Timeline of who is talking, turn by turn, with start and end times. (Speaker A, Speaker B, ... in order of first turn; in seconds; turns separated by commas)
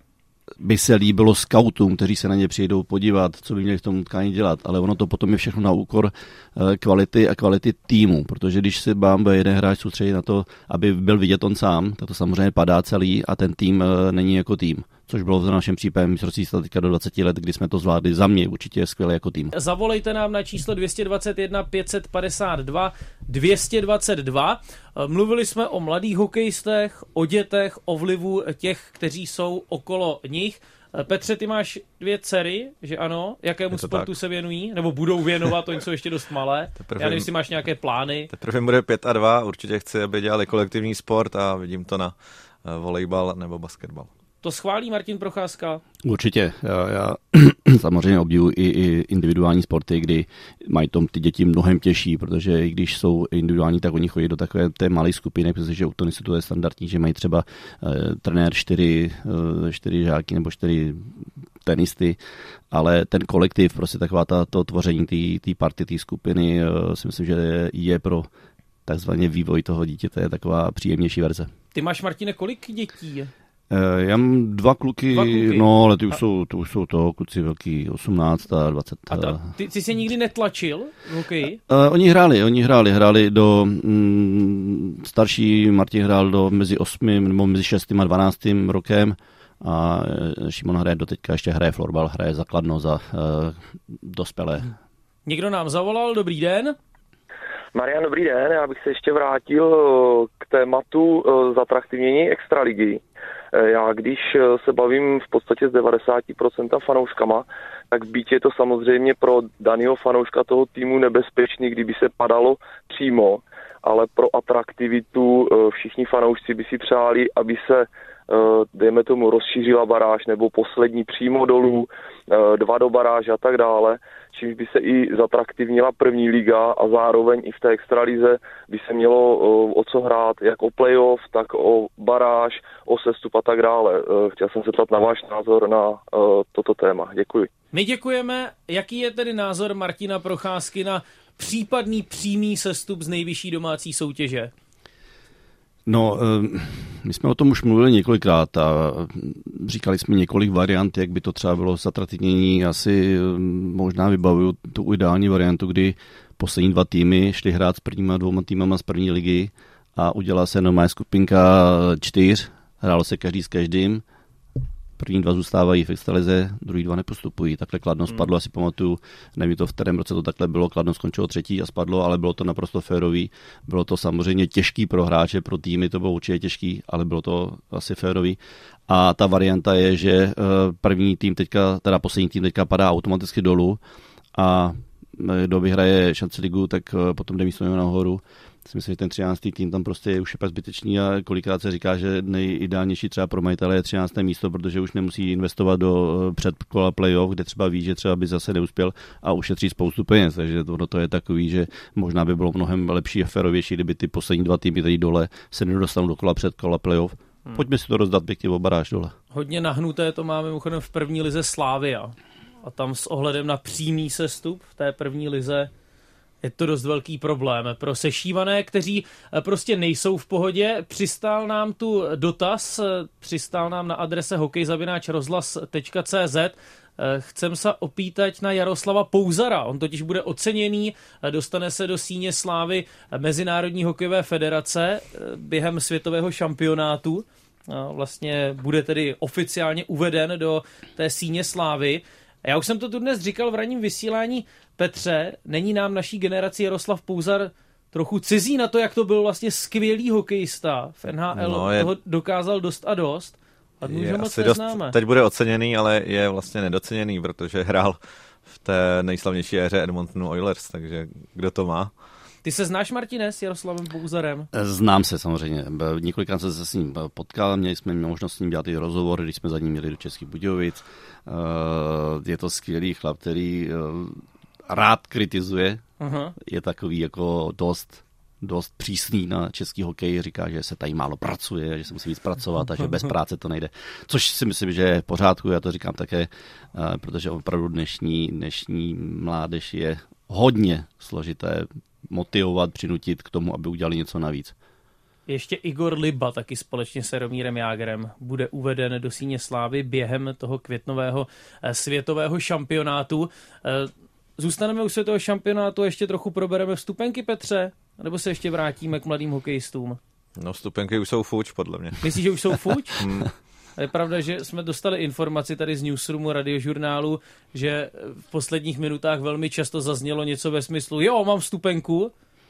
Speaker A: 0.6-19.5, Speaker B: 19.5-38.3, Speaker C: 33.7-34.1, Speaker C: 36.8-37.3, Speaker C: 38.3-42.1, Speaker C: 42.6-44.1, Speaker B: 44.4-45.8, Speaker A: 46.0-62.2, Speaker A: 62.7-68.3, Speaker A: 68.8-71.5, Speaker B: 71.7-73.3, Speaker A: 73.7-79.5, Speaker B: 75.1-75.6, Speaker B: 79.1-81.6, Speaker A: 81.7-94.7, Speaker B: 95.2-96.8, Speaker D: 97.7-103.0, Speaker D: 103.5-137.5, Speaker B: 137.7-144.5, Speaker A: 145.8-164.0, Speaker A: 165.0-183.8, Speaker A: 184.3-209.1, Speaker B: 209.3-215.7, Speaker B: 216.4-254.9, Speaker C: 251.3-251.9, Speaker C: 253.8-261.9, Speaker B: 262.4-264.5, Speaker A: 264.5-275.8, Speaker B: 276.0-276.3, Speaker A: 276.4-294.5, Speaker B: 295.3-310.0, Speaker C: 310.4-312.0, Speaker B: 312.0-313.0, Speaker C: 313.0-313.3, Speaker B: 313.8-322.1